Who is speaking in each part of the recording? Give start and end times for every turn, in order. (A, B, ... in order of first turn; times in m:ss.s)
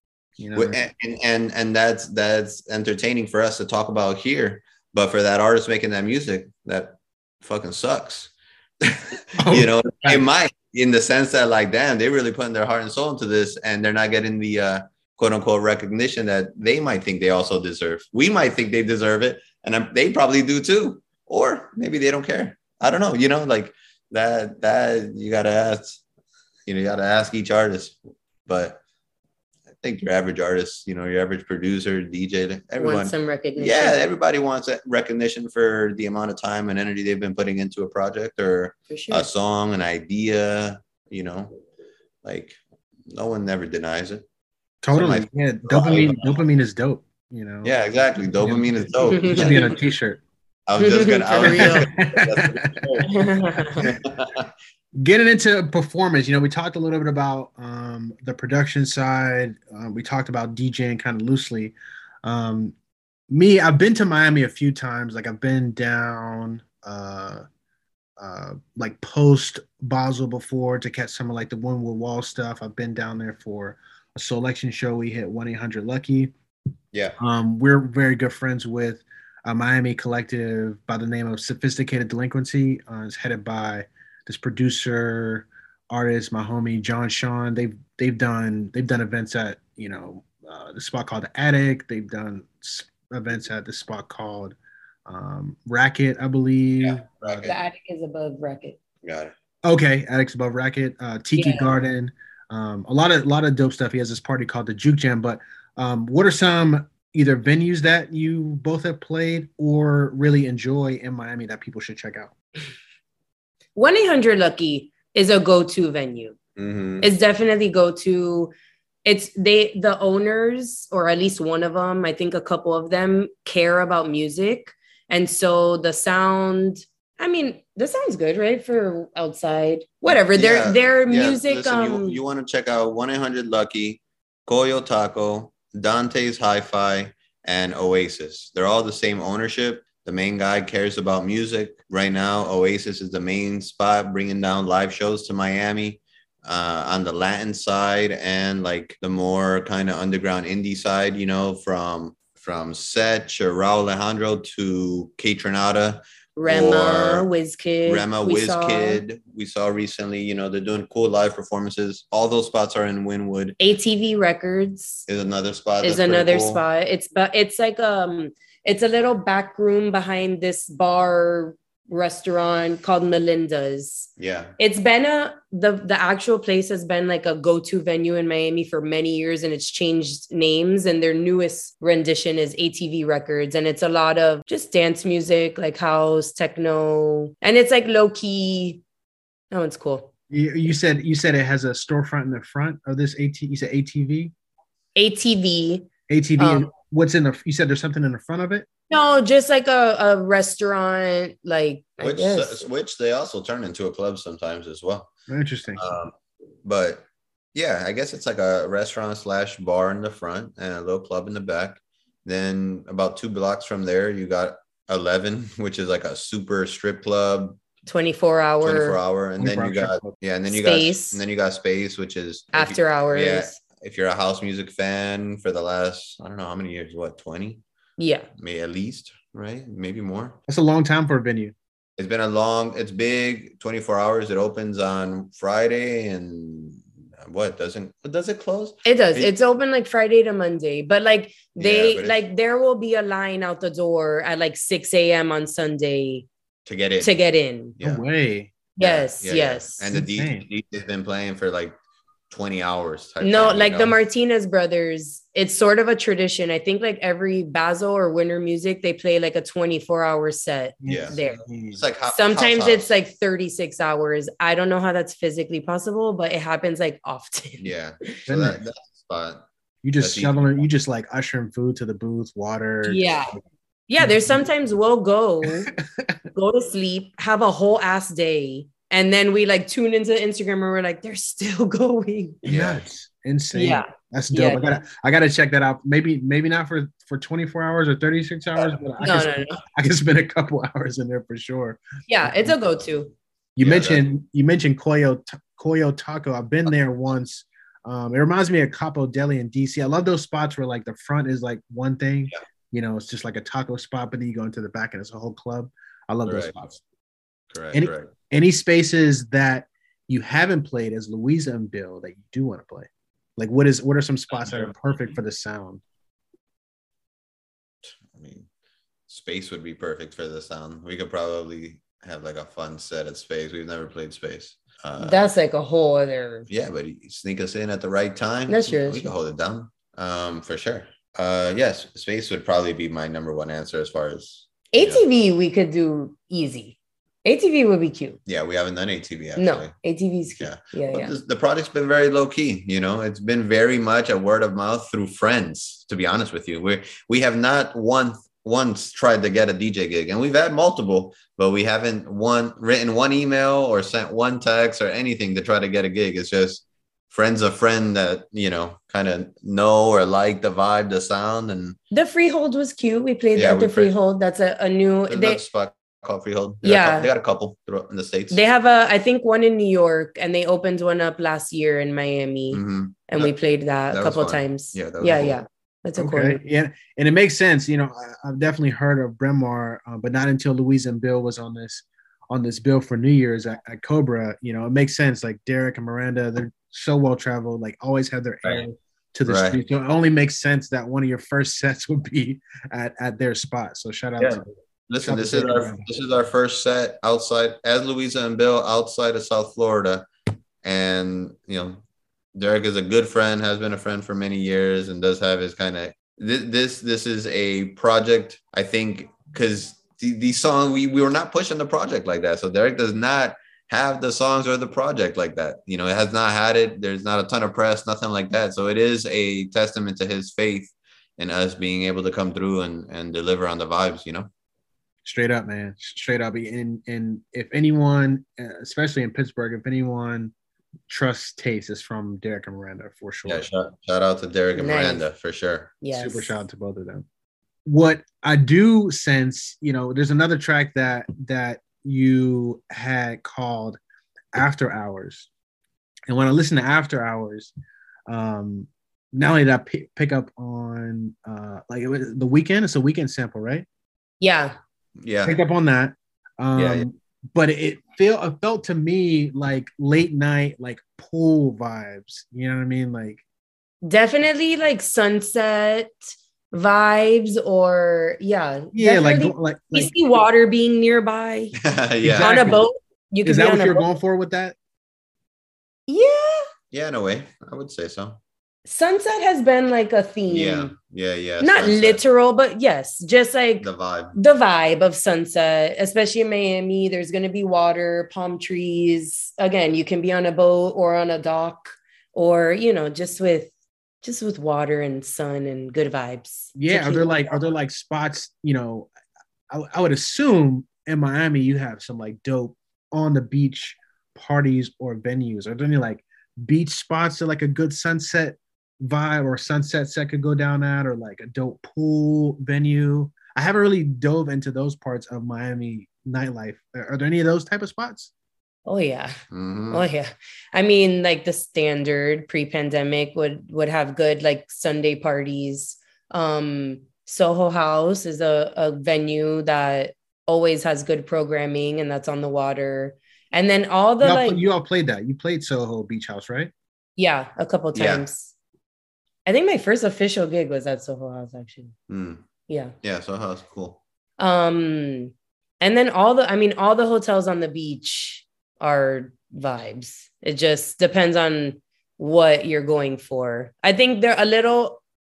0:00.4-0:00.8 A
0:00.6-0:26.0 B
0:09.4-0:10.2 A
0:26.7-0:28.8 B
0:29.8-0:41.5 B
0:32.8-0:34.0 C
0:38.9-0:39.3 C
0:42.2-0:44.2 B
0:44.8-0:47.7 A
0:44.9-0:46.4 B
0:47.6-0:49.7 B
0:48.4-0:50.2 A
0:49.1-0:49.6 C
0:50.7-0:53.1 B
0:50.8-0:51.9 C
0:51.4-0:53.1 A
0:53.1-0:53.8 C
0:53.8-0:54.5 B
0:55.0-1:02.7 A
1:03.3-1:07.4 A
1:08.2-1:16.3 A
1:17.2-1:34.6 A
1:35.1-1:37.1 A
1:36.8-1:37.6 B
1:37.4-1:38.8 C
1:39.0-1:39.3 B
1:39.6-1:52.3 A
1:41.4-1:41.7 C
1:53.8-1:56.4 C
1:56.6-1:57.1 B
1:57.0-1:58.5 C
1:59.0-2:12.2 C
2:10.1-2:37.3 B
2:36.4-2:39.0 C
2:37.9-2:43.6 B
2:43.6-2:45.1 C
2:45.1-2:46.6 B
2:45.8-2:54.1 C
2:54.2-2:54.5 B
2:54.6-3:08.8 C
3:09.5-3:10.1 C
3:10.3-3:14.3 A
3:15.0-3:15.9 C
3:16.1-3:18.7 A
3:16.4-3:16.7 C
3:18.9-3:22.7 C
3:22.0-3:25.1 B
3:25.3-3:25.8 A
3:25.8-3:37.6 B
3:37.9-3:39.0 C
3:38.6-3:47.6 B
3:39.4-3:40.2 A
3:40.5-3:41.2 C
3:42.5-3:43.6 C
3:48.0-3:48.3 C
3:48.4-3:50.4 B
3:50.5-3:51.5 A
3:52.0-3:59.3 B
3:58.8-4:06.3 C
4:01.6-4:02.2 B
4:06.7-4:07.1 B
4:07.0-4:07.8 C
4:07.8-4:08.5 A
4:08.8-4:09.8 C
4:08.8-4:11.8 B
4:09.9-4:10.4 A
4:12.3-4:14.0 B
4:13.2-4:21.4 C
4:20.8-4:21.8 A
4:20.8-4:21.2 B
4:21.7-4:22.9 B
4:22.1-4:27.7 C
4:27.6-4:29.4 B
4:28.3-4:28.6 A
4:29.8-4:33.4 A
4:30.0-4:30.4 B
4:32.9-4:33.4 C
4:33.9-4:35.7 C
4:34.0-4:34.4 A
4:35.4-4:36.1 A
4:36.3-4:42.4 C
4:42.4-4:42.8 B
4:42.5-4:52.5 A
4:43.5-4:44.8 C
4:49.0-4:49.6 C
4:52.1-4:53.1 C
4:53.6-5:06.8 A
4:53.6-4:54.0 B
5:06.3-5:06.5 B
5:07.5-5:08.1 B
5:07.7-5:15.8 A
5:14.4-5:14.7 B
5:17.9-5:18.5 B
5:19.1-5:25.2 B
5:25.0-5:26.5 C
5:26.5-5:35.0 B
5:28.5-5:29.1 C
5:34.7-5:38.2 C
5:38.3-5:39.7 B
5:39.4-5:41.1 C
5:40.4-6:01.8 B
6:01.9-6:05.4 C
6:03.4-6:03.9 B
6:05.1-6:08.4 B
6:06.6-6:07.1 C
6:08.3-6:16.4 C
6:12.5-6:13.3 B
6:13.9-6:15.4 B
6:16.0-6:34.5 A
6:29.3-6:29.6 B
6:34.2-6:40.1 B
6:35.0-6:35.9 A
6:40.6-6:41.8 B
6:42.4-7:04.3 B
7:05.0-7:10.3 A
7:10.9-7:13.4 A
7:13.3-7:15.7 B
7:14.6-7:15.0 C
7:15.8-7:16.3 C
7:15.9-7:17.1 A
7:17.7-7:23.8 A
7:24.3-7:25.3 A
7:26.1-7:27.5 A
7:28.1-7:33.7 A
7:34.2-7:34.6 C
7:35.0-7:35.4 B
7:35.2-7:43.2 A
7:36.6-7:36.9 B
7:43.8-7:51.6 C
7:48.7-7:49.9 A
7:51.6-7:52.6 B
7:52.0-7:52.6 A
7:52.2-7:53.8 C
7:53.2-7:54.6 A
7:55.9-7:56.5 C
7:56.7-7:58.2 B
7:58.7-8:00.8 C
8:00.3-8:02.0 B
8:01.4-8:13.5 C
8:03.6-8:04.2 B
8:14.0-8:17.3 C
8:16.6-8:18.9 A
8:19.5-8:38.1 A
8:38.7-8:39.2 C
8:39.3-8:39.9 B
8:39.7-8:54.4 C
8:54.0-8:56.5 A
8:57.0-8:58.3 C
8:57.7-8:58.0 B
8:59.3-9:01.8 C
9:01.9-9:02.2 B
9:02.5-9:02.8 C
9:02.8-9:03.8 B
9:04.2-9:14.8 C